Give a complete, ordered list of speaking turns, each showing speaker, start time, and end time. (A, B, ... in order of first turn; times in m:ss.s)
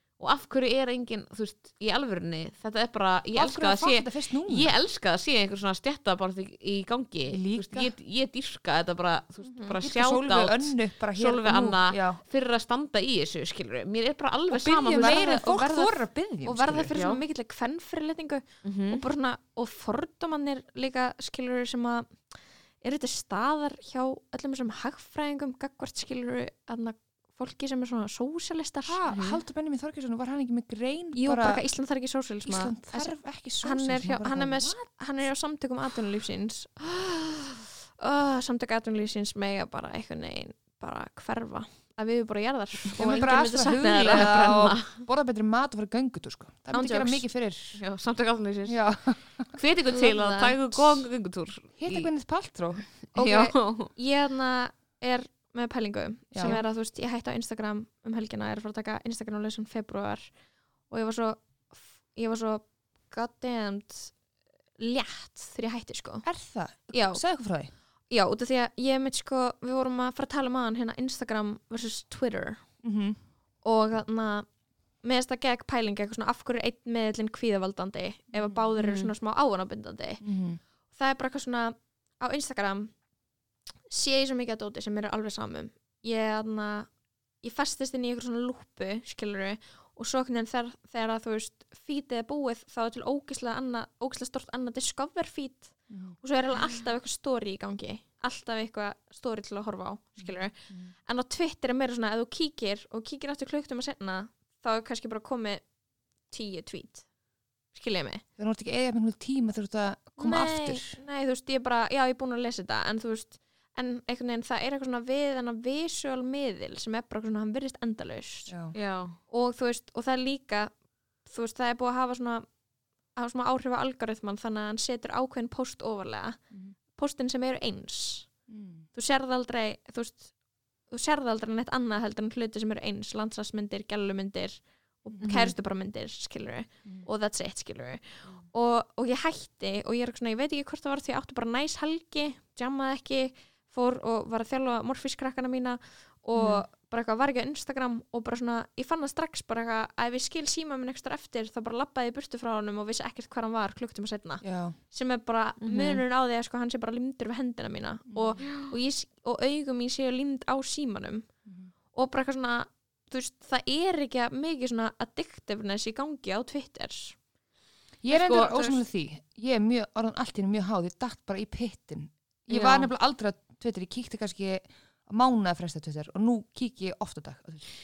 0:00.2-0:15.3 A
0:03.4-0:04.7 B
0:07.3-0:07.9 B
0:09.4-0:09.8 C
0:09.8-0:12.2 B
0:14.5-0:17.0 B
0:14.9-0:22.3 C
0:16.9-0:17.2 A
0:18.6-0:19.0 A
0:22.8-0:29.0 C
0:28.8-0:31.6 B
0:29.1-0:29.4 A
0:31.2-0:44.7 C
0:32.4-0:34.8 B
0:43.0-0:47.8 B
0:44.0-0:45.0 A
0:46.7-0:47.2 C
0:47.8-0:48.8 A
0:48.7-0:49.5 B
0:49.6-0:52.1 A
0:49.9-0:50.6 C
0:51.8-0:52.9 B
0:53.2-1:00.3 C
0:53.2-0:53.9 A
0:56.3-0:56.6 B
1:00.9-1:04.1 C
1:04.8-1:06.2 C
1:06.2-1:07.7 B
1:06.9-1:07.2 C
1:08.1-1:12.6 C
1:12.8-1:13.2 B
1:13.6-1:14.5 C
1:15.0-1:20.2 C
1:18.3-1:18.7 B
1:18.8-1:19.1 A
1:20.2-1:20.6 B
1:20.9-1:22.9 C
1:23.9-1:26.9 C
1:27.4-1:45.6 C
1:35.9-1:36.2 B
1:40.2-1:40.9 B
1:46.3-1:47.1 C
1:47.7-1:48.2 C
1:48.4-1:51.0 B
1:50.2-1:58.6 C
1:58.5-1:58.7 B
1:58.7-1:59.2 A
1:59.3-2:00.7 C
2:01.2-2:02.5 C
2:03.2-2:06.4 C
2:07.0-2:08.3 C
2:08.5-2:08.9 B
2:08.9-2:10.3 C
2:10.9-2:41.3 C
2:15.2-2:15.5 A
2:26.4-2:26.6 B
2:34.4-2:34.8 B
2:35.6-2:36.0 A
2:38.1-2:38.4 B
2:38.4-2:38.7 A
2:41.9-2:47.2 C
2:48.0-2:57.7 B
2:48.2-2:48.6 A
2:48.2-2:48.7 C
2:52.5-2:52.9 A